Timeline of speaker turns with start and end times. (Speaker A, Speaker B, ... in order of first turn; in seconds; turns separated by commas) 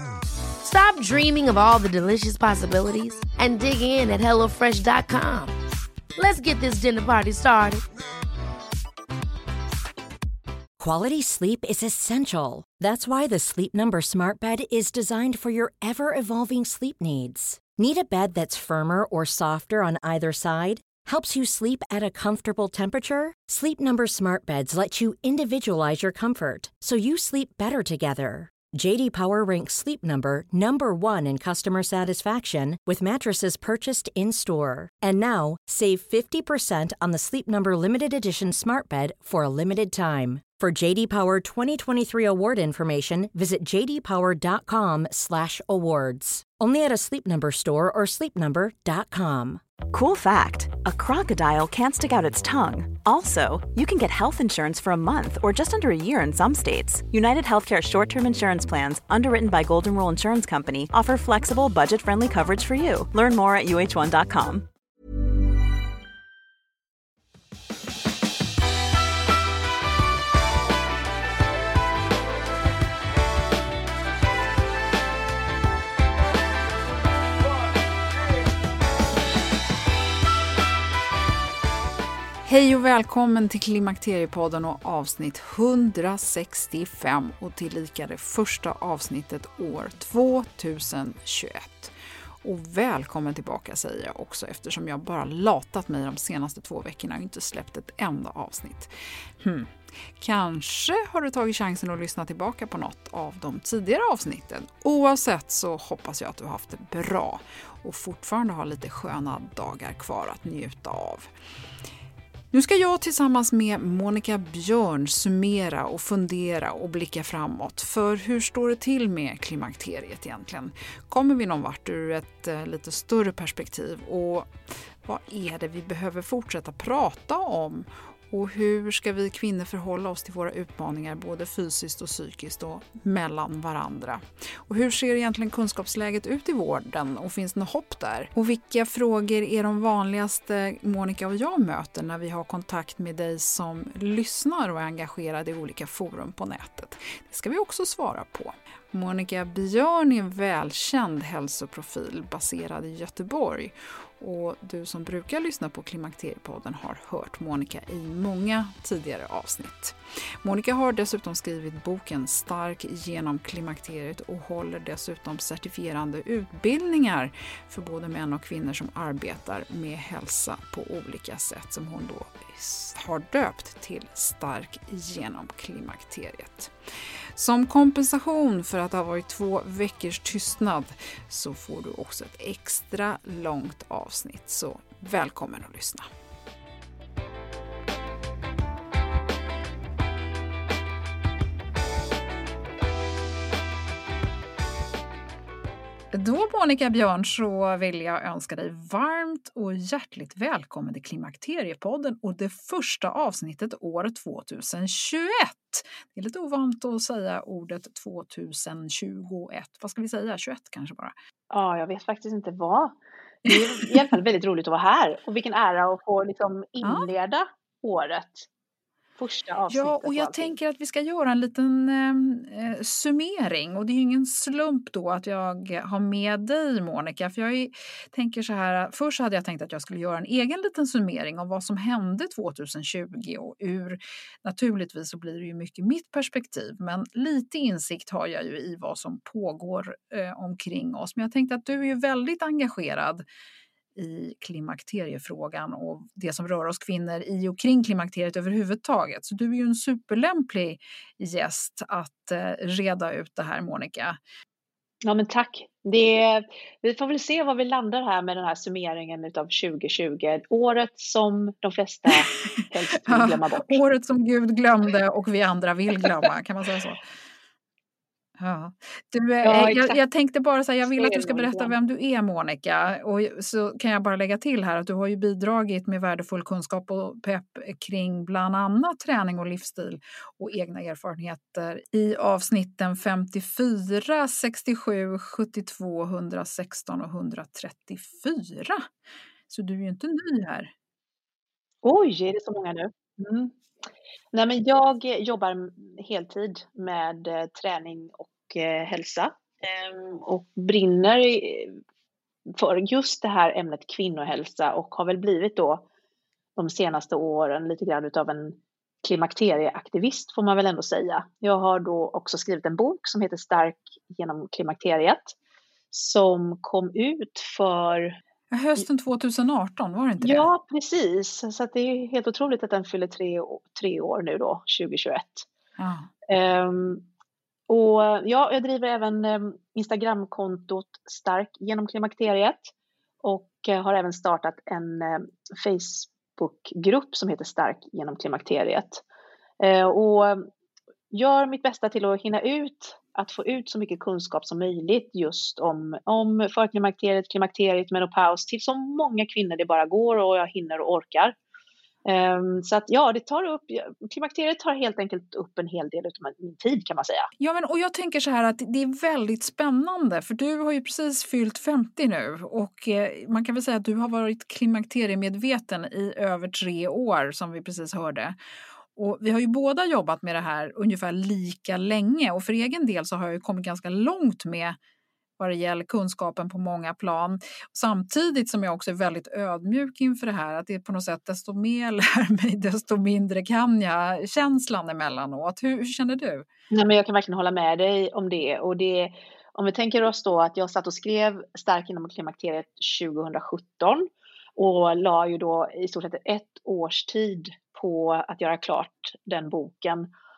Speaker A: 0.6-5.5, Speaker A: 6.2-7.8, Speaker B: 10.8-49.6, Speaker C: 49.9-64.7, Speaker D: 82.4-111.3, Speaker D: 112.5-124.5, Speaker D: 125.0-176.7, Speaker D: 177.3-186.1, Speaker D: 196.1-211.1, Speaker E: 211.5-218.5, Speaker D: 213.4-214.0, Speaker D: 216.8-217.1, Speaker E: 219.2-220.5, Speaker D: 219.7-243.2, Speaker D: 243.9-254.2, Speaker E: 255.1-263.8, Speaker D: 262.1-262.4, Speaker D: 263.1-267.0, Speaker D: 268.4-288.9, Speaker E: 269.4-270.0, Speaker E: 270.9-271.8, Speaker D: 289.5-290.7, Speaker E: 291.8-293.5, Speaker E: 294.3-301.8, Speaker E: 302.6-305.9, Speaker E: 306.6-315.3, Speaker E: 315.9-318.1, Speaker D: 318.5-320.5, Speaker E: 320.2-325.5, Speaker D: 325.8-326.1, Speaker E: 326.3-327.0, Speaker E: 327.7-332.7, Speaker E: 333.2-339.0, Speaker E: 339.6-340.5, Speaker E: 341.1-351.4, Speaker E: 352.1-357.3, Speaker D: 357.4-368.4, Speaker D: 368.9-374.8, Speaker D: 375.4-386.4, Speaker E: 386.7-400.1